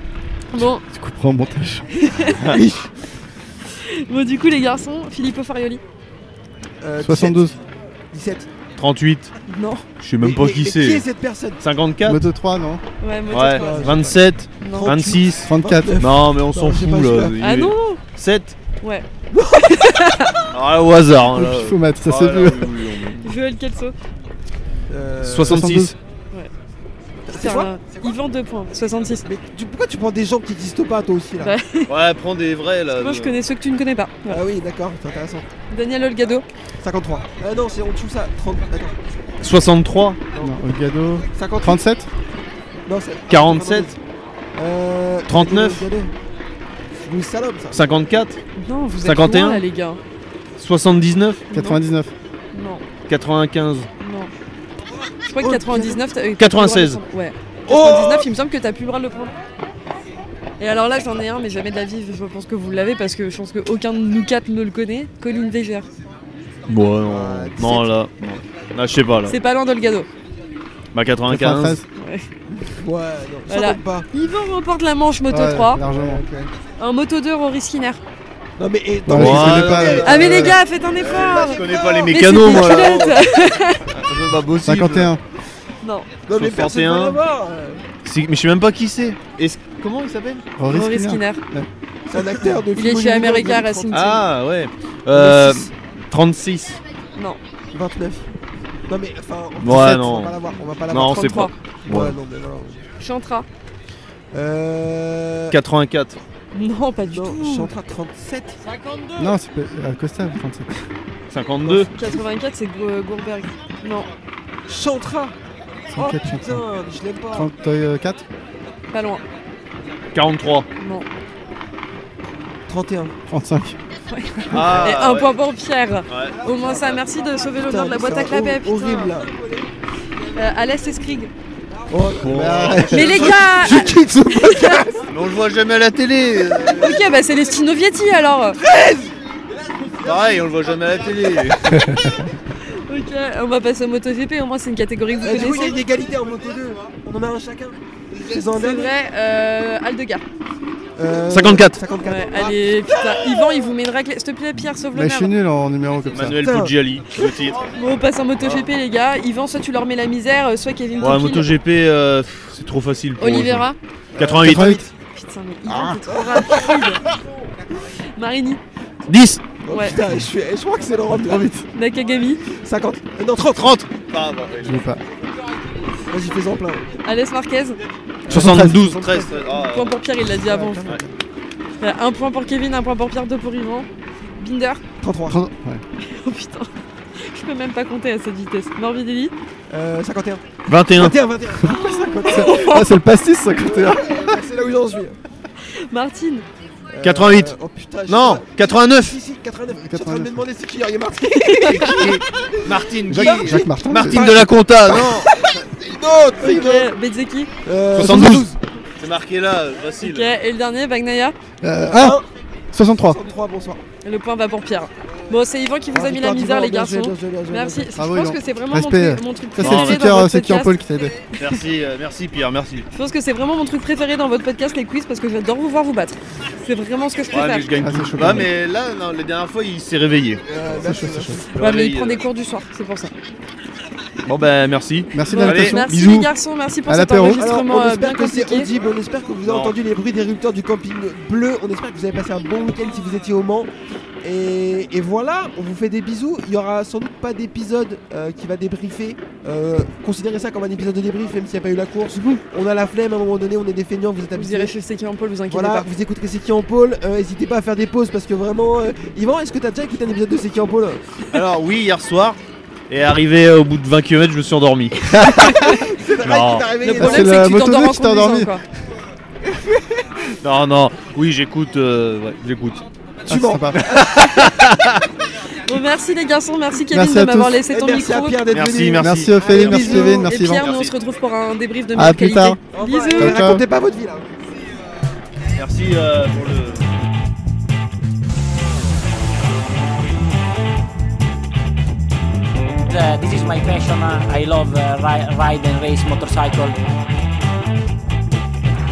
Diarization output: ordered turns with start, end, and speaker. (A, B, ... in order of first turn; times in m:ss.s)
0:00.5-0:00.8 A
0:00.5-0:01.9 B
0:01.9-0:02.4 A
0:02.4-0:02.6 C
0:02.4-0:02.9 D
0:03.7-0:05.8 A
0:06.8-0:07.6 D
0:07.0-0:07.6 B
0:08.1-0:08.5 D
0:08.8-0:09.3 C
0:09.5-0:09.8 A
0:10.0-0:11.0 C
0:10.2-0:11.6 D
0:11.6-0:12.2 C
0:12.0-0:12.8 B
0:13.0-0:14.0 A
0:13.3-0:18.5 C
0:13.3-0:17.4 D
0:14.6-0:14.9 A
0:15.4-0:16.0 B
0:17.4-0:18.0 A
0:18.8-0:19.0 A
0:19.3-0:19.9 D
0:19.6-0:20.4 A
0:20.5-0:23.3 C
0:21.3-0:22.8 B
0:23.2-0:23.9 A
0:24.9-0:25.7 D
0:25.2-0:26.0 C
0:25.4-0:26.0 B
0:27.3-0:28.1 D
0:27.3-0:29.2 A
0:29.2-0:31.6 D
0:31.4-0:31.9 A
0:31.9-0:33.4 C
0:32.9-0:34.4 A
0:34.3-0:35.5 D
0:35.7-0:36.4 A
0:36.8-0:39.0 D
0:39.4-0:40.2 C
0:40.4-0:42.1 B
0:41.3-0:41.8 D
0:42.8-0:44.0 D
0:43.3-0:43.9 C
0:44.5-0:46.1 D
0:45.3-0:45.9 C
0:47.0-0:47.8 D
0:47.7-0:48.4 C
0:48.6-0:50.0 A
0:49.0-0:49.6 C
0:50.6-0:51.4 C
0:51.5-0:51.8 A
0:51.5-0:52.1 B
0:52.5-0:52.8 A
0:53.1-0:53.9 C
0:54.0-0:54.3 A
0:55.2-0:59.3 A
0:55.4-0:56.0 D
0:56.4-0:57.0 C
0:57.7-0:58.3 D
1:00.6-1:05.9 A
1:06.7-1:09.3 C
1:07.0-1:07.9 D
1:09.2-1:10.1 A
1:10.9-1:11.8 C
1:11.3-1:11.8 B
1:12.0-1:12.3 A
1:12.5-1:14.0 D
1:13.5-1:15.8 A
1:15.3-1:16.2 B
1:15.8-1:16.5 D
1:16.8-1:18.0 A
1:18.6-1:22.2 D
1:19.1-1:20.6 B
1:19.1-1:23.2 C
1:20.0-1:23.9 A
1:23.9-1:25.1 C
1:24.6-1:25.2 B
1:25.8-1:26.1 A
1:26.3-1:27.8 D
1:26.3-1:27.2 C
1:28.0-1:30.4 C
1:30.6-1:31.7 B
1:30.7-1:31.4 A
1:32.1-1:34.2 D
1:32.7-1:34.2 A
1:33.9-1:36.8 C
1:35.1-1:35.7 D
1:37.7-1:38.3 D
1:38.9-1:42.8 D
1:39.6-1:40.4 C
1:39.6-1:40.1 B
1:40.9-1:42.2 C
1:40.9-1:41.5 A
1:43.0-1:43.4 A
1:44.3-1:45.6 D
1:45.5-1:46.2 C
1:46.5-1:47.7 A
1:47.1-1:48.6 D
1:49.2-1:50.7 B
1:51.3-1:51.9 C
1:51.6-1:52.2 D
1:51.9-1:54.1 A
1:54.7-1:55.3 D
1:55.9-1:56.6 B
1:55.9-1:57.5 D
1:57.3-1:58.2 B
1:58.9-1:59.2 A
2:00.1-2:00.7 C
2:00.8-2:01.1 A
2:02.7-2:03.1 D
2:03.3-2:03.8 B
2:04.1-2:09.1 A
2:04.5-2:05.3 C
2:06.1-2:06.4 C
2:07.6-2:09.6 D
2:10.3-2:11.3 A
2:11.9-2:15.1 D
2:12.2-2:13.8 C
2:12.2-2:13.3 B
2:12.9-2:14.8 A
2:15.1-2:17.0 C
2:16.8-2:18.6 A
2:18.6-2:19.2 D
2:20.0-2:22.0 C
2:21.8-2:22.3 B
2:22.6-2:25.8 A
2:25.2-2:28.9 D
2:28.5-2:30.2 A
2:31.0-2:33.5 D
2:31.3-2:31.8 C
2:32.0-2:35.3 A
2:34.9-2:36.5 B
2:36.1-2:37.6 C
2:36.3-2:36.7 D
2:37.1-2:41.5 A
2:41.0-2:43.6 C
2:43.2-2:43.8 A
2:44.2-2:44.8 C
2:44.2-2:44.9 D
2:44.4-2:44.8 B
2:45.1-2:47.0 A
2:45.7-2:46.8 D
2:47.8-2:48.6 A
2:49.1-2:49.4 C
2:49.6-2:51.6 D
2:49.7-2:50.0 A
2:51.7-2:52.4 A
2:52.5-2:53.8 D
2:53.5-2:54.8 C
2:54.6-2:55.0 B
2:56.1-2:56.9 D
2:57.0-2:57.8 A
2:58.2-2:59.4 D
2:58.3-2:58.9 B
2:58.3-3:00.0 C
2:59.5-3:01.0 A
3:00.4-3:01.1 D
3:01.8-3:04.8 A
3:05.0-3:05.4 D
3:05.3-3:05.8 B
3:06.0-3:09.3 A
3:09.7-3:12.8 D
3:10.7-3:11.2 C
3:11.6-3:13.0 A
3:12.2-3:14.4 B
3:13.6-3:15.2 D
3:15.6-3:16.4 A
3:16.9-3:22.7 D
3:17.0-3:17.5 C
3:18.1-3:19.2 C
3:19.7-3:20.4 B
3:21.3-3:22.1 A
3:21.7-3:25.4 C
3:23.0-3:24.3 B
3:24.1-3:26.9 D
3:26.4-3:27.5 A
3:27.6-3:28.6 D
3:27.9-3:28.5 C
3:29.0-3:30.3 C
3:30.0-3:31.3 A
3:31.6-3:32.2 B
3:31.8-3:32.3 D
3:32.7-3:33.2 B
3:33.0-3:33.8 D
3:34.0-3:40.8 A
3:35.9-3:37.9 D
3:38.0-3:41.2 B
3:39.6-3:40.1 C
3:41.4-3:42.9 C
3:42.9-3:47.6 A
3:47.3-3:50.4 C
3:47.8-3:48.5 B
3:50.5-3:51.4 D
3:50.7-3:51.4 B
3:51.4-3:52.2 C
3:51.5-3:53.1 A
3:54.2-3:56.3 C
3:55.1-3:55.9 B
3:55.2-3:58.7 A
3:56.9-3:57.4 B
3:57.3-4:03.7 D
3:59.4-3:59.8 C
4:04.2-4:14.7 D
4:14.3-4:15.9 A
4:15.5-4:21.2 D
4:21.3-4:26.7 C
4:25.3-4:27.3 D
4:26.8-4:28.6 A
4:27.0-4:28.5 B
4:29.4-4:30.0 D
4:30.4-4:32.8 C
4:33.3-4:33.8 B
4:33.3-4:34.2 D
4:33.7-4:35.1 C
4:35.6-4:38.4 A
4:36.9-4:37.6 B
4:37.7-4:40.2 D
4:38.5-4:40.9 C
4:39.0-4:40.7 B
4:39.4-4:43.4 A
4:41.9-4:42.6 B
4:42.7-4:44.5 D
4:43.2-4:43.6 B
4:45.5-4:46.8 C
4:52.8-4:56.8 E